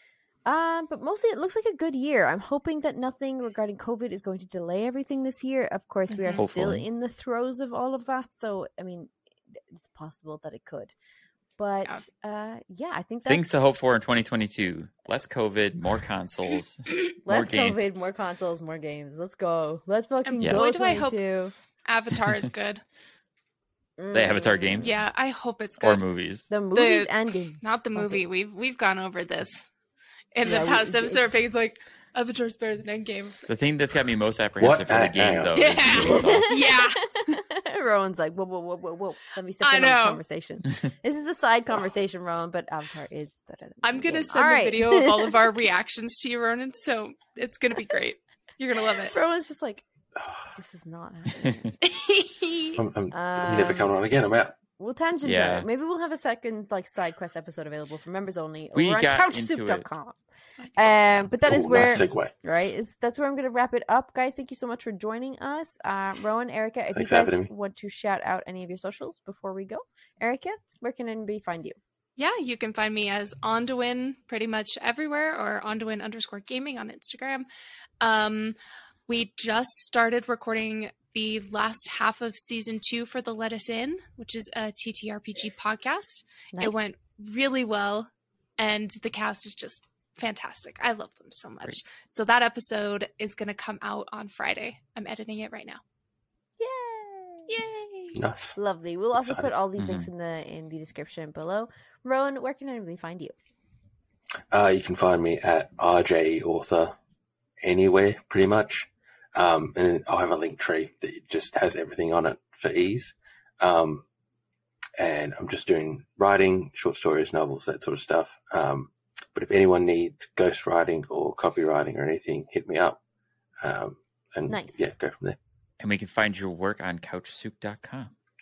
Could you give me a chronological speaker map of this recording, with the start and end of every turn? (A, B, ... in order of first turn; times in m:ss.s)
0:00.4-0:10.9 A
0:06.1-0:06.4 B
0:06.4-0:06.9 C
0:11.6-0:13.7 A
0:13.3-0:17.9 C
0:17.2-0:21.5 A
0:20.2-0:21.2 B
0:20.4-0:20.7 C
0:21.8-0:22.8 B
0:24.0-0:25.0 A
0:24.1-0:25.0 C
0:24.8-0:26.1 B
0:25.8-0:26.5 C
0:26.5-0:28.2 A
0:26.7-0:29.7 B
0:30.3-0:33.4 B
0:30.4-0:31.4 A
0:33.5-0:36.8 C
0:34.6-0:36.1 D
0:35.5-0:37.4 B
0:36.1-0:45.5 A
0:39.6-0:40.2 B
0:43.8-0:49.2 B
0:49.0-0:49.9 A
0:50.2-0:50.5 D
0:50.6-0:51.8 A
0:51.8-0:52.8 B
0:52.8-0:54.6 D
0:53.1-0:54.0 A
0:54.8-1:00.2 A
0:55.2-0:55.7 C
0:58.7-0:59.9 C
1:00.6-1:00.9 B
1:00.7-1:11.8 A
1:01.4-1:02.3 D
1:06.9-1:07.5 D
1:12.2-1:17.5 B
1:18.0-1:18.6 B
1:19.1-1:35.8 B
1:26.5-1:26.9 A
1:36.6-1:37.7 A
1:37.5-1:38.2 B
1:38.2-1:38.6 D
1:38.6-1:43.4 A
1:39.2-1:39.5 D
1:39.8-1:40.1 C
1:44.5-1:47.0 D
1:47.6-1:54.0 D
1:55.0-2:03.0 D
2:03.6-2:05.4 D
2:04.5-2:04.8 A
2:05.8-2:08.1 C